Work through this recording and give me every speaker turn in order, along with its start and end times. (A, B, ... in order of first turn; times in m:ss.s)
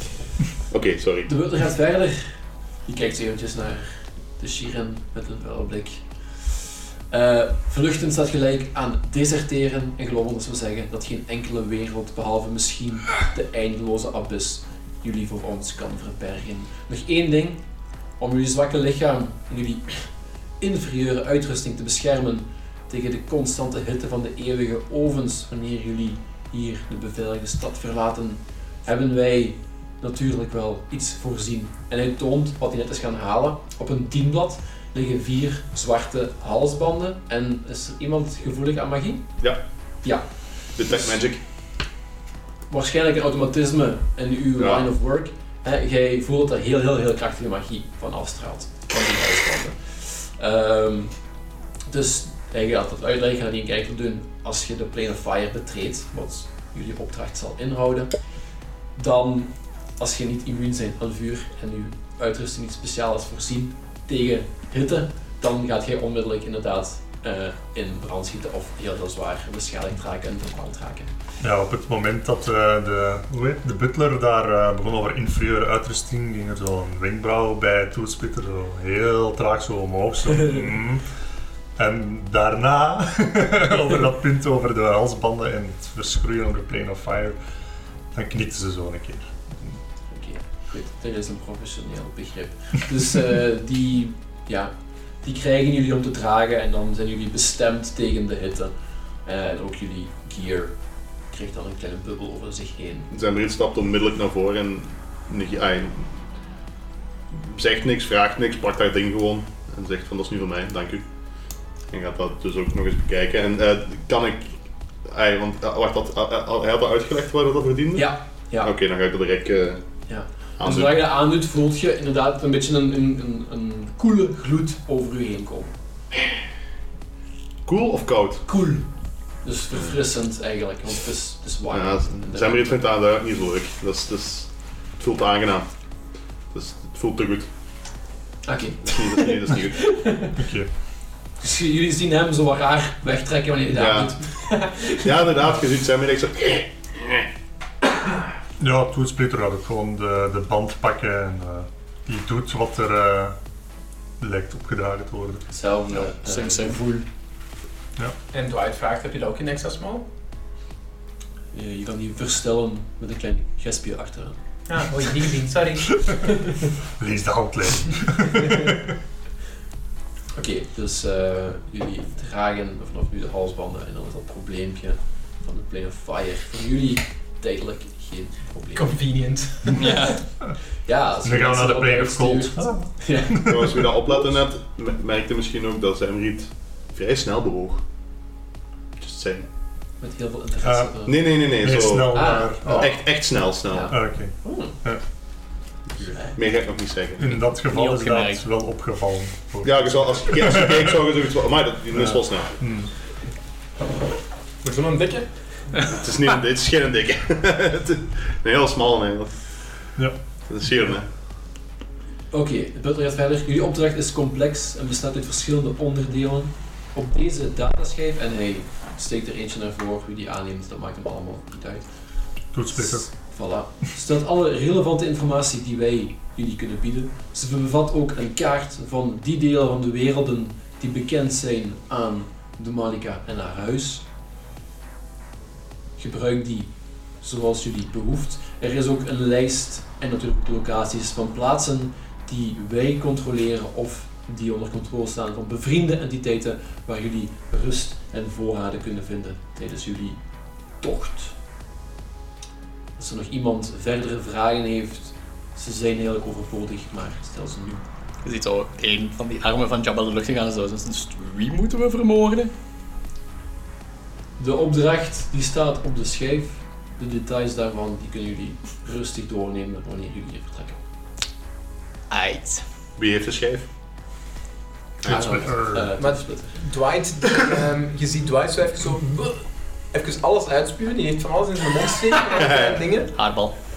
0:00.7-0:01.3 A
0:01.3-0:17.6 B
0:18.2-0:20.0 B
0:20.6-0:39.2 B
0:40.8-0:41.4 A
0:42.7-0:51.1 B
0:44.6-0:44.8 A
0:51.9-0:58.1 B
0:59.0-1:11.1 B
1:11.4-1:21.0 C
1:21.8-1:27.4 C
1:28.1-1:29.8 C
1:30.1-1:34.7 B
1:35.2-1:38.7 B
1:39.2-1:40.7 B
1:41.3-1:43.1 B
1:43.1-1:46.1 A
1:47.3-1:51.0 A
1:51.9-1:59.8 A
1:58.0-1:58.7 B
2:00.1-2:05.7 B
2:00.6-2:01.0 A
2:07.6-2:08.4 A
2:08.4-2:08.8 B
2:09.4-2:12.8 B
2:11.7-2:15.7 A
2:16.5-2:17.5 A
2:18.4-2:20.4 B
2:18.8-2:19.8 A
2:20.3-2:20.7 C
2:21.4-2:25.0 B
2:23.7-2:24.1 A
2:25.0-2:27.2 A
2:28.6-2:33.4 C
2:34.2-2:35.5 C
2:35.5-2:37.0 B
2:36.0-2:36.8 D
2:38.3-2:40.0 E
2:41.5-2:44.4 B
2:44.7-2:45.9 E
2:47.0-2:48.9 C
2:50.3-2:58.9 B
2:58.7-3:00.1 E
2:59.7-3:00.2 D
3:00.8-3:03.5 B
3:01.2-3:03.8 C
3:03.4-3:07.8 A
3:09.0-3:09.4 A
3:10.0-3:11.2 B
3:10.6-3:12.9 C
3:11.0-3:13.9 A
3:12.1-3:13.0 B
3:13.7-3:14.8 B
3:13.9-3:15.0 C
3:16.0-3:16.3 B
3:16.3-3:17.3 A
3:17.2-3:21.0 C
3:17.7-3:18.4 D
3:19.6-3:22.5 A
3:21.9-3:22.9 C
3:24.6-3:25.3 E
3:25.8-3:29.3 A
3:30.5-3:31.0 A
3:32.3-3:41.8 B
3:42.5-3:43.1 C
3:42.8-3:54.0 B
3:56.0-3:56.7 B
3:57.2-4:10.2 B
4:10.8-4:11.3 B
4:13.0-4:17.8 B
4:18.2-4:22.5 D
4:24.4-4:30.8 B
4:32.1-4:32.6 D
4:33.0-4:33.7 A
4:35.0-4:35.4 A
4:35.0-4:36.0 C
4:35.0-4:36.6 B
4:36.0-4:43.1 E
4:42.3-4:42.8 A
4:43.1-4:43.5 D